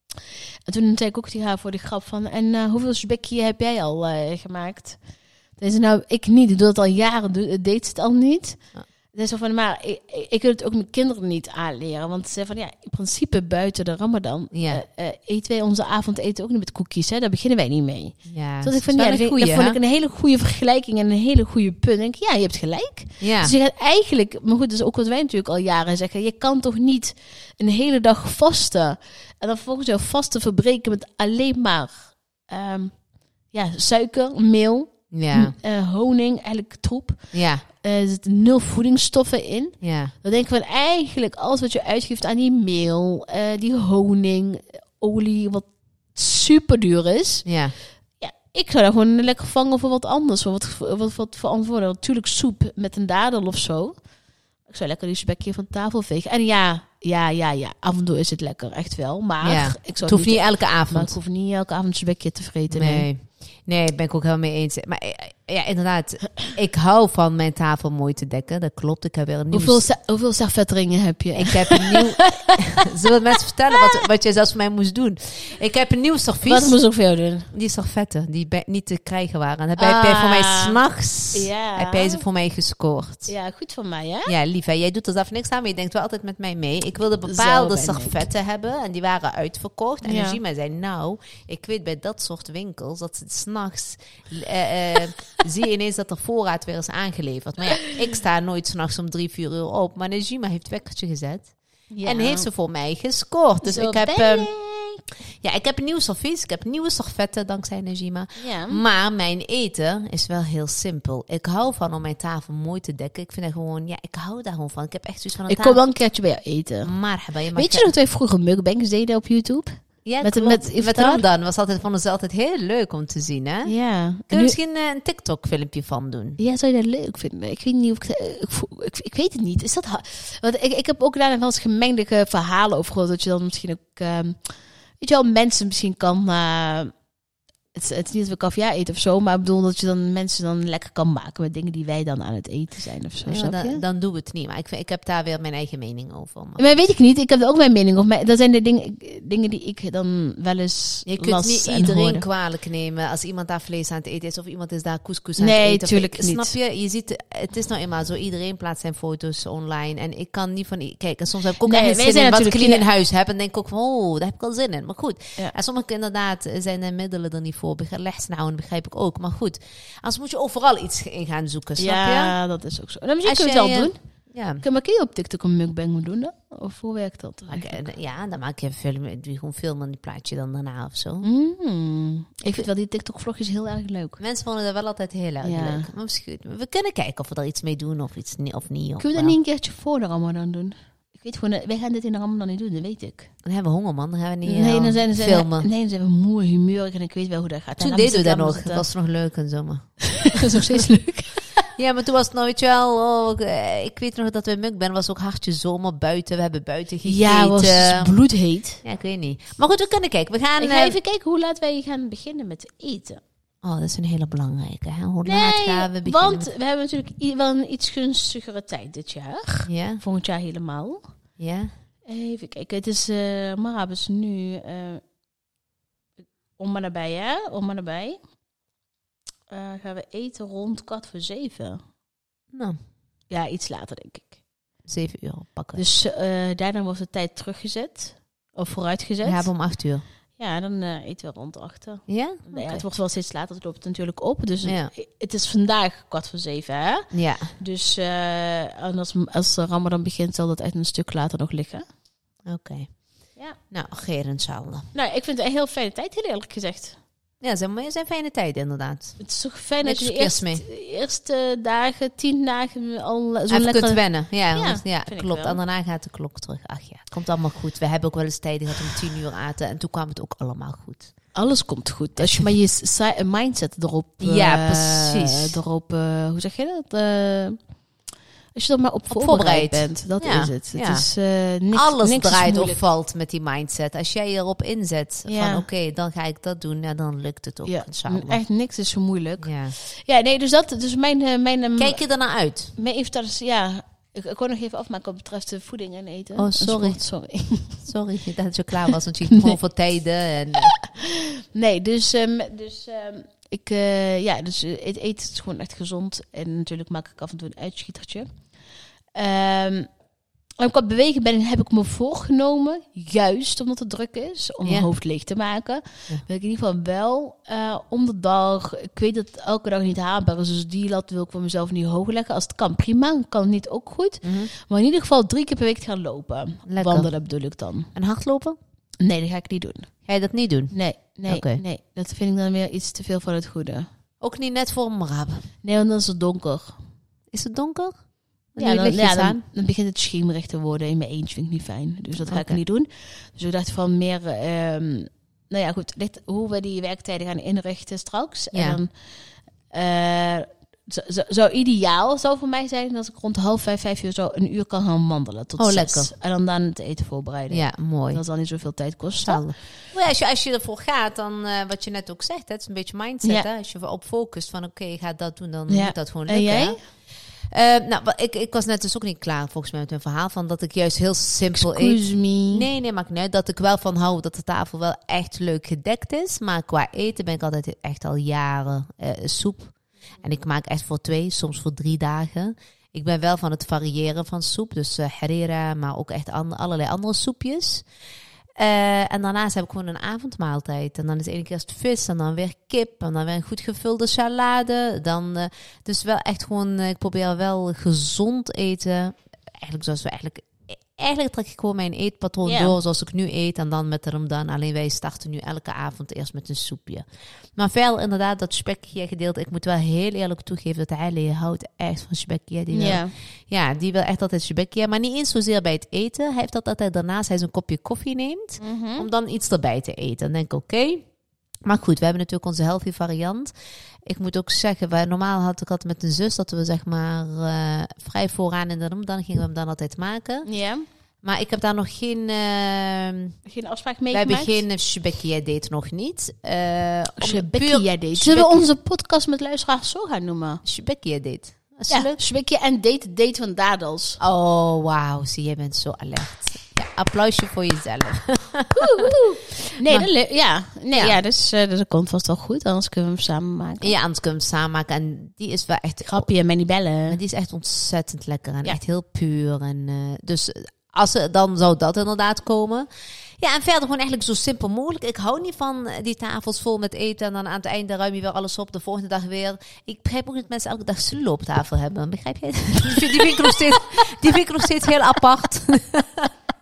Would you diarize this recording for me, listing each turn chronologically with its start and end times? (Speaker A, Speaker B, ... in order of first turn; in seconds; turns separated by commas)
Speaker A: 0.7-5.0, Speaker A: 5.6-8.6, Speaker A: 9.1-33.0, Speaker B: 14.5-14.8, Speaker B: 18.2-19.8, Speaker B: 23.2-23.5, Speaker A: 33.5-47.5, Speaker B: 35.1-35.5, Speaker B: 37.3-37.6, Speaker B: 39.8-40.1, Speaker B: 47.5-47.8, Speaker A: 48.2-54.0, Speaker A: 54.6-63.1, Speaker B: 59.4-61.1, Speaker B: 62.7-69.8, Speaker A: 69.5-74.0, Speaker B: 71.3-76.7, Speaker A: 76.5-77.5, Speaker B: 77.5-83.3, Speaker A: 79.8-80.8, Speaker A: 81.3-82.2, Speaker A: 83.2-84.3, Speaker B: 84.2-101.5, Speaker A: 87.2-88.2, Speaker A: 90.0-90.4, Speaker A: 101.9-102.5, Speaker B: 102.0-104.6, Speaker A: 103.6-104.8, Speaker B: 105.4-115.8, Speaker A: 108.4-108.8, Speaker A: 115.5-116.9, Speaker B: 116.8-117.9, Speaker A: 117.5-121.2, Speaker B: 120.0-123.7, Speaker A: 123.7-124.5, Speaker B: 124.3-126.4, Speaker A: 126.4-136.9, Speaker A: 137.7-143.8, Speaker B: 143.2-146.6, Speaker A: 146.6-152.3, Speaker B: 151.1-172.3, Speaker A: 155.4-156.5, Speaker A: 161.6-162.8, Speaker A: 171.8-174.0, Speaker B: 173.2-174.6, Speaker A: 174.6-177.8, Speaker B: 177.5-181.2, Speaker A: 181.2-184.2, Speaker B: 184.2-189.3, Speaker A: 185.4-185.9, Speaker A: 189.0-193.3, Speaker B: 193.4-195.7, Speaker A: 194.4-198.8, Speaker B: 197.8-200.6, Speaker A: 200.1-201.7, Speaker B: 201.7-208.2, Speaker A: 207.0-208.8, Speaker B: 208.8-210.9, Speaker A: 210.6-213.2, Speaker B: 213.6-216.5, Speaker A: 215.2-221.0, Speaker B: 219.7-220.0, Speaker B: 221.4-221.7, Speaker A: 222.1-225.0, Speaker A: 226.6-228.2, Speaker A: 229.5-231.8, Speaker B: 232.5-232.8, Speaker A: 233.3-234.3, Speaker B: 234.8-235.8, Speaker A: 235.7-239.5, Speaker B: 239.2-240.0, Speaker A: 240.4-247.1, Speaker B: 242.1-242.8, Speaker B: 244.6-244.9, Speaker B: 247.1-247.5, Speaker A: 247.6-251.8, Speaker B: 252.5-252.9, Speaker B: 253.7-254.9, Speaker A: 254.9-257.0, Speaker B: 257.4-259.2, Speaker A: 259.2-264.0, Speaker B: 259.8-260.6, Speaker B: 263.5-271.1, Speaker A: 264.5-265.6, Speaker A: 271.3-277.6, Speaker B: 272.2-272.5, Speaker B: 274.2-275.6, Speaker A: 278.5-282.8, Speaker B: 279.1-281.1, Speaker B: 281.7-288.4, Speaker A: 285.2-285.6, Speaker A: 287.6-292.0, Speaker B: 289.4-289.7, Speaker B: 291.8-292.7, Speaker A: 292.7-297.8, Speaker B: 296.4-297.0, Speaker B: 297.8-300.7, Speaker A: 299.2-299.6, Speaker A: 300.6-308.3, Speaker A: 309.1-309.9, Speaker A: 310.6-327.9, Speaker B: 324.2-324.5, Speaker B: 326.7-327.1, Speaker B: 327.9-328.6, Speaker A: 329.0-329.9, Speaker B: 330.1-330.7, Speaker A: 330.7-333.9, Speaker B: 331.3-331.6, Speaker B: 334.2-335.4, Speaker A: 335.6-336.7, Speaker B: 337.3-338.0, Speaker B: 338.5-339.4, Speaker A: 338.6-348.9, Speaker B: 342.2-342.6, Speaker B: 348.5-348.8, Speaker A: 349.7-359.4, Speaker B: 355.6-356.1, Speaker B: 357.5-358.2, Speaker B: 359.2-366.8, Speaker A: 365.7-366.8, Speaker B: 367.5-387.8, Speaker A: 371.5-372.6, Speaker B: 388.6-407.0, Speaker A: 402.4-402.8, Speaker B: 407.6-421.0, Speaker A: 412.7-413.1, Speaker A: 418.6-419.1, Speaker B: 421.6-423.5, Speaker B: 424.1-430.5, Speaker A: 430.4-430.9, Speaker B: 431.2-433.4, Speaker A: 433.4-434.6, Speaker B: 434.1-438.6, Speaker A: 437.2-440.6, Speaker B: 440.6-442.2, Speaker A: 441.9-444.2, Speaker B: 444.2-450.1, Speaker A: 448.7-453.9, Speaker B: 453.8-456.3, Speaker A: 456.0-457.2, Speaker B: 457.1-462.9, Speaker B: 463.4-476.3, Speaker A: 472.9-473.6